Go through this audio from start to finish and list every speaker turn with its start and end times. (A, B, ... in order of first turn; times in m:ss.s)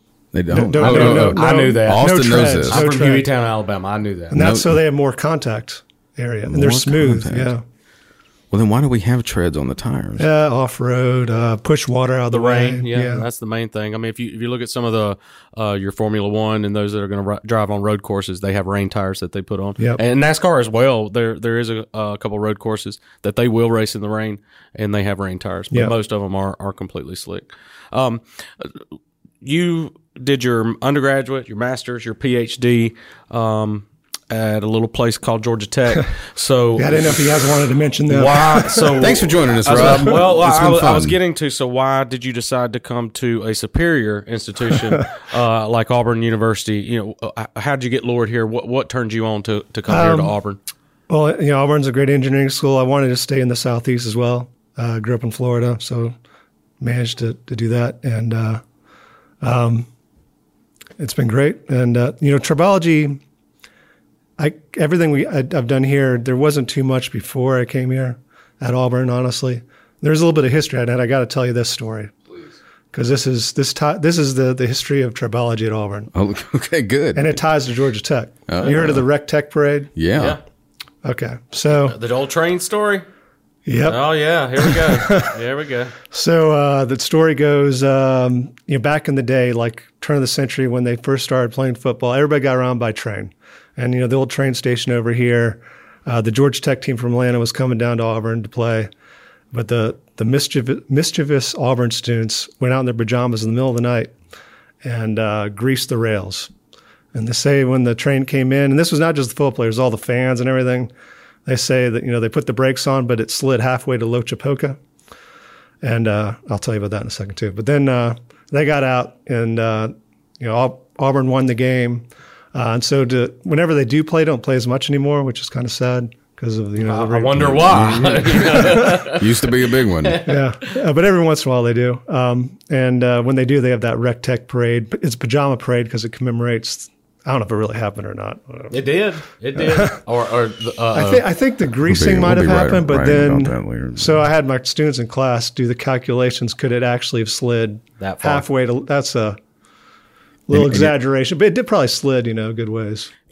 0:00.3-0:02.9 A
0:00.5-0:03.3 B
0:00.8-0:04.4 C
0:04.3-0:07.6 B
0:04.3-0:04.8 A
0:06.5-0:07.5 A
0:08.5-0:10.3 A
0:10.2-0:13.3 B
0:12.3-0:28.8 C
0:29.4-0:37.4 C
0:36.8-0:39.1 B
0:38.1-0:50.6 C
0:39.0-0:41.2 A
0:49.9-0:50.4 B
0:51.1-0:56.2 B
0:56.8-0:58.6 B
0:59.4-0:59.9 B
1:01.0-1:03.2 B
1:04.4-1:12.1 B
1:12.9-1:16.1 B
1:16.1-1:17.4 A
1:17.2-1:19.9 B
1:18.5-1:19.0 A
1:20.0-1:20.4 A
1:20.2-1:20.4 C
1:21.0-1:22.0 B
1:21.8-1:23.0 C
1:23.7-1:25.3 B
1:23.8-1:25.9 C
1:26.1-1:38.9 B
1:39.5-1:44.1 B
1:44.8-1:46.5 B
1:47.1-1:50.9 B
1:51.4-1:54.8 B
1:55.8-2:09.1 B
2:06.8-2:09.3 C
2:07.4-2:10.2 A
2:10.0-2:10.4 C
2:10.2-2:18.8 B
2:18.7-2:21.2 C
2:19.6-2:20.0 B
2:20.9-2:29.4 B
2:21.9-2:24.2 A
2:28.0-2:28.5 C
2:30.5-2:33.1 B
2:30.5-2:31.0 A